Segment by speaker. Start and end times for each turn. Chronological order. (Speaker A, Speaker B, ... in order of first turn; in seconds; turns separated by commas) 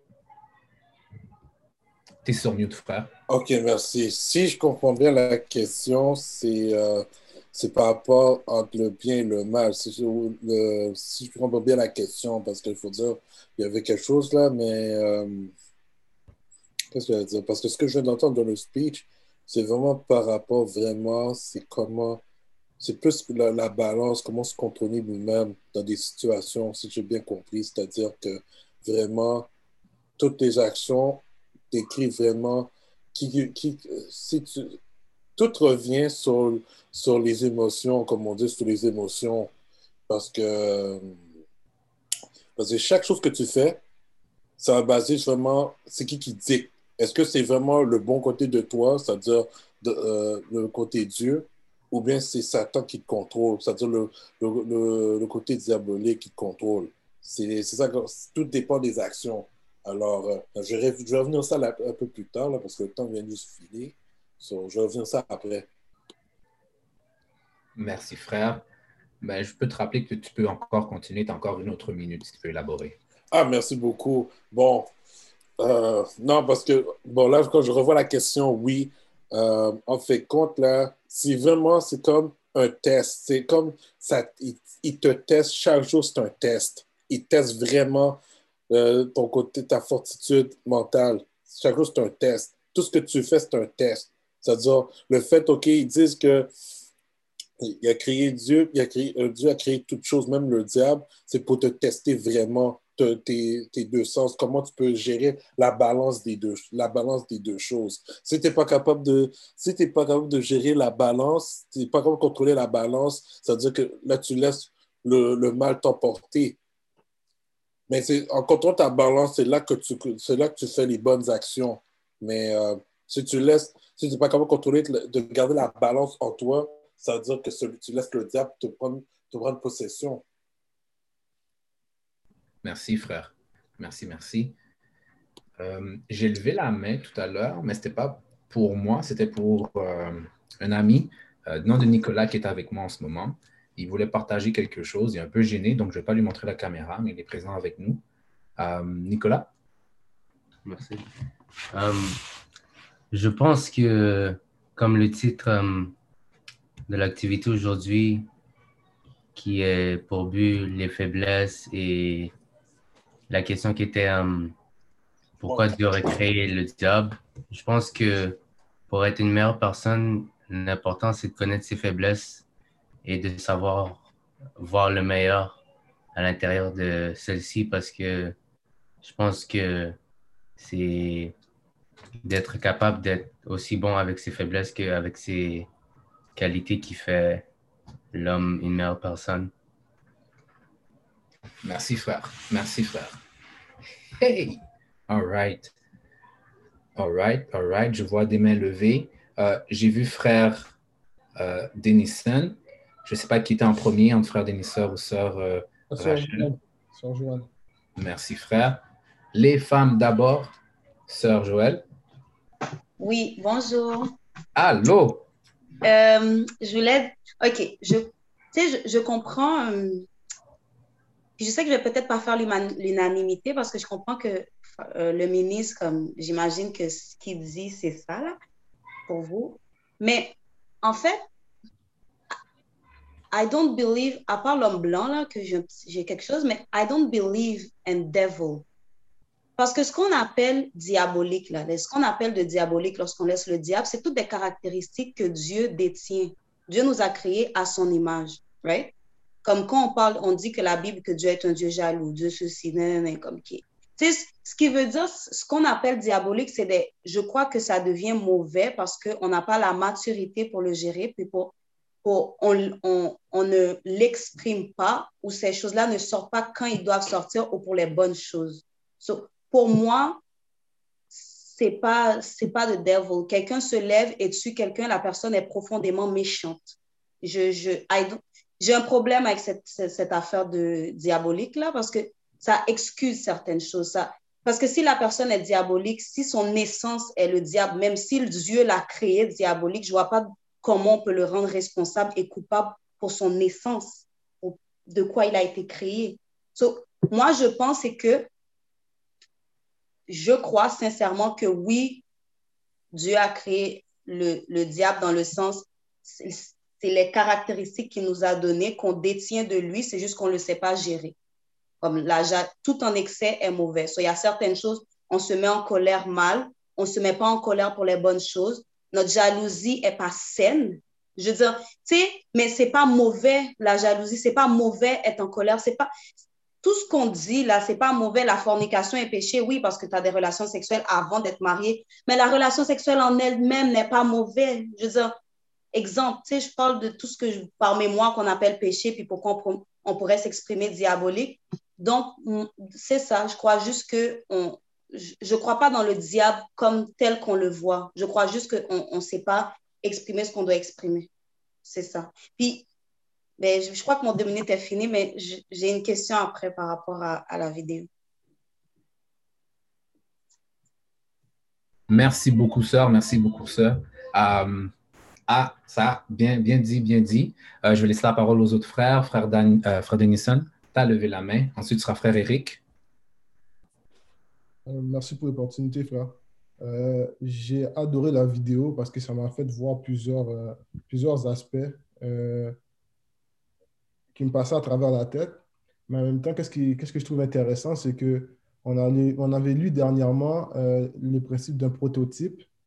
Speaker A: 2.2-3.1, Speaker B: 3.3-15.5, Speaker B: 16.9-22.2, Speaker B: 22.8-29.5, Speaker B: 30.2-34.8, Speaker B: 35.4-39.5, Speaker B: 40.1-41.2, Speaker B: 42.5-43.8, Speaker B: 44.6-65.7, Speaker A: 67.8-68.6, Speaker A: 69.2-72.9, Speaker B: 73.3-74.9, Speaker B: 75.6-96.5, Speaker B: 97.6-116.6, Speaker B: 117.9-130.2, Speaker A: 132.6-134.5, Speaker A: 135.6-148.0, Speaker A: 148.6-149.5, Speaker C: 150.7-151.0, Speaker C: 151.7-152.2, Speaker C: 153.1-155.9, Speaker C: 156.9-158.3, Speaker C: 159.3-162.3, Speaker C: 163.3-164.5, Speaker C: 165.4-172.4, Speaker B: 165.4-166.1, Speaker C: 173.0-175.6, Speaker C: 176.1-178.4, Speaker C: 179.0-180.0, Speaker C: 180.6-181.3, Speaker C: 182.2-185.7, Speaker C: 186.3-187.5, Speaker C: 188.1-189.5, Speaker A: 191.6-193.2, Speaker A: 194.2-195.7, Speaker A: 197.0-200.8, Speaker A: 201.3-206.5, Speaker D: 205.9-207.5, Speaker A: 207.9-208.8, Speaker A: 209.3-210.5, Speaker A: 211.1-211.8, Speaker E: 213.0-214.1, Speaker A: 214.5-215.2, Speaker E: 215.8-220.1, Speaker E: 221.4-228.3, Speaker E: 229.1-231.2, Speaker E: 233.3-238.6, Speaker E: 239.6-248.9, Speaker E: 249.4-261.5, Speaker E: 262.0-270.2, Speaker E: 271.1-298.3, Speaker E: 300.1-302.0, Speaker E: 302.9-311.1, Speaker E: 311.8-325.9, Speaker E: 326.6-335.1, Speaker E: 335.7-351.1, Speaker E: 351.6-352.6, Speaker E: 353.4-357.9, Speaker A: 361.9-364.7, Speaker A: 365.3-372.6, Speaker D: 374.6-382.6, Speaker D: 384.1-392.4